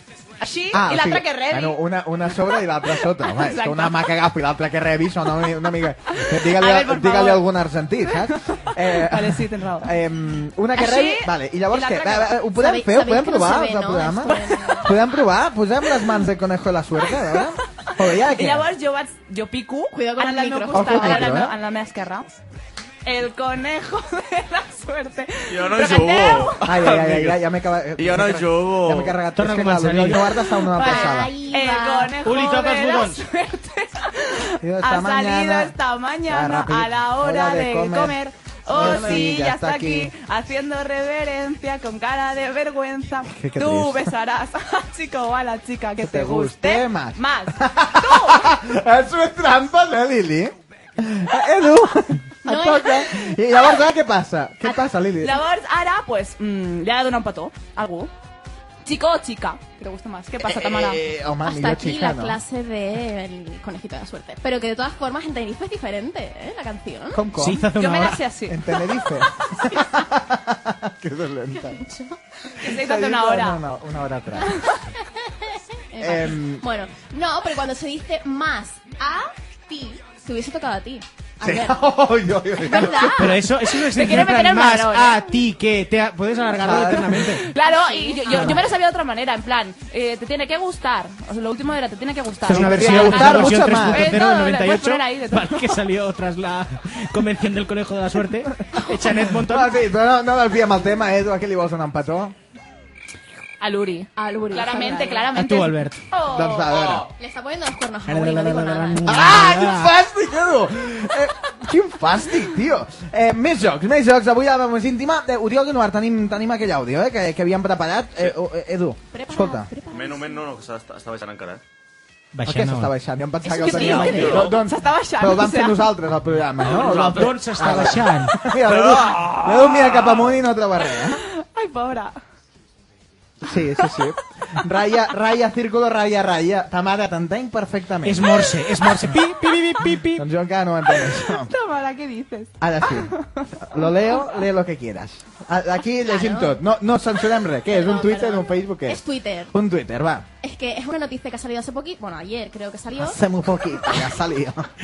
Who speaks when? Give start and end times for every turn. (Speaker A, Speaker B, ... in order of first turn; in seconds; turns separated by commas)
Speaker A: 0.4-1.8, Speaker B: 0.7-18.7, Speaker A: 3.0-4.1, Speaker A: 6.1-7.4, Speaker A: 8.1-9.9, Speaker A: 10.8-12.4, Speaker C: 12.5-14.9, Speaker A: 18.2-22.3, Speaker C: 19.9-21.4, Speaker B: 20.7-21.5, Speaker A: 23.1-26.6, Speaker D: 25.5-27.4, Speaker B: 26.6-31.3, Speaker D: 28.0-29.2, Speaker E: 29.4-30.4, Speaker C: 30.7-32.2, Speaker A: 30.7-48.5, Speaker E: 32.2-33.2, Speaker B: 34.6-35.8, Speaker B: 36.3-38.2, Speaker B: 38.7-40.1, Speaker C: 38.8-39.2, Speaker B: 43.3-44.1, Speaker B: 46.0-55.4, Speaker C: 52.5-53.1, Speaker A: 55.2-58.1, Speaker A: 58.9-61.0, Speaker B: 60.4-62.4, Speaker C: 61.5-67.2, Speaker B: 67.1-67.7, Speaker E: 67.4-68.2, Speaker A: 67.8-68.7, Speaker B: 68.5-71.8, Speaker C: 71.7-72.2, Speaker A: 72.6-73.6, Speaker B: 72.6-74.6, Speaker C: 75.9-81.8, Speaker B: 76.0-76.7, Speaker B: 81.4-83.3, Speaker C: 82.6-83.4, Speaker E: 83.2-87.5, Speaker A: 83.8-85.2, Speaker B: 86.6-87.3, Speaker A: 87.1-95.8, Speaker C: 87.7-88.5, Speaker E: 88.3-88.6, Speaker B: 92.5-94.2, Speaker E: 92.5-99.8, Speaker B: 99.0-102.3, Speaker A: 103.6-107.0, Speaker C: 104.2-105.3, Speaker E: 105.3-106.0, Speaker B: 106.3-107.1, Speaker C: 107.2-109.3, Speaker E: 108.1-109.9, Speaker B: 109.0-119.7, Speaker C: 119.1-120.5, Speaker D: 119.9-121.6, Speaker E: 122.3-122.9, Speaker B: 122.5-131.2, Speaker A: 123.5-125.9, Speaker C: 123.5-124.2, Speaker D: 124.0-124.6, Speaker D: 126.6-127.9, Speaker E: 127.0-128.4, Speaker D: 128.7-129.7, Speaker A: 130.9-132.2, Speaker B: 133.4-138.5, Speaker E: 138.1-140.2, Speaker B: 140.2-141.5, Speaker A: 140.9-143.5, Speaker B: 142.6-150.3, Speaker C: 146.1-146.6, Speaker C: 147.7-149.5, Speaker C: 150.4-153.2, Speaker B: 153.0-154.7